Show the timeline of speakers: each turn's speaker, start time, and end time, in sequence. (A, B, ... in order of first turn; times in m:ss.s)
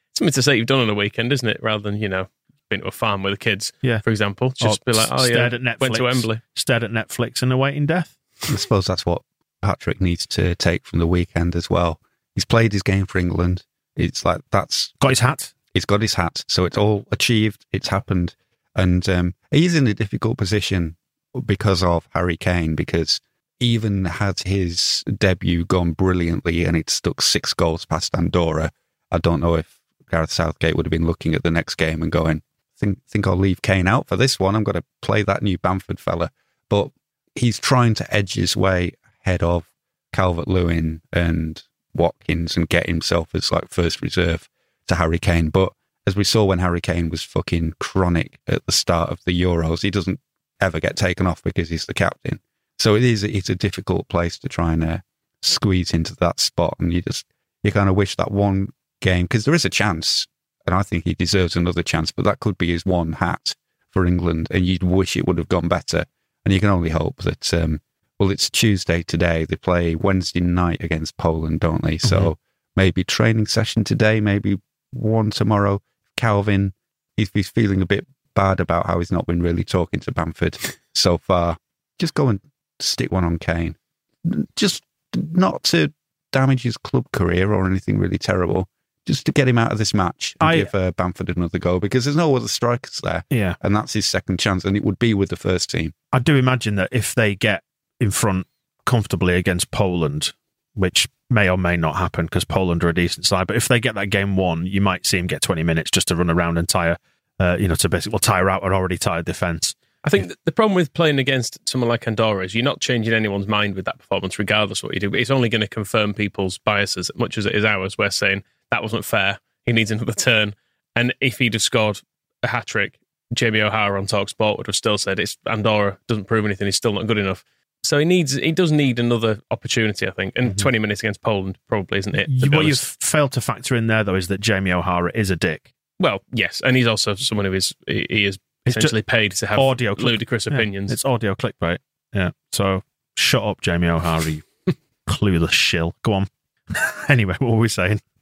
0:00.2-0:06.4 A
0:04.6-0:08.2 B
0:08.5-0:15.1 C
0:15.0-0:15.5 B
0:15.7-1:35.9 C
1:12.0-1:12.3 B
1:30.4-1:30.7 B
1:33.3-1:33.6 B
1:36.1-1:49.8 B
1:50.0-2:12.8 A
2:12.3-2:15.7 B
2:16.0-2:21.0 A
2:18.7-2:18.9 B
2:19.6-2:24.5 B
2:25.1-2:28.0 B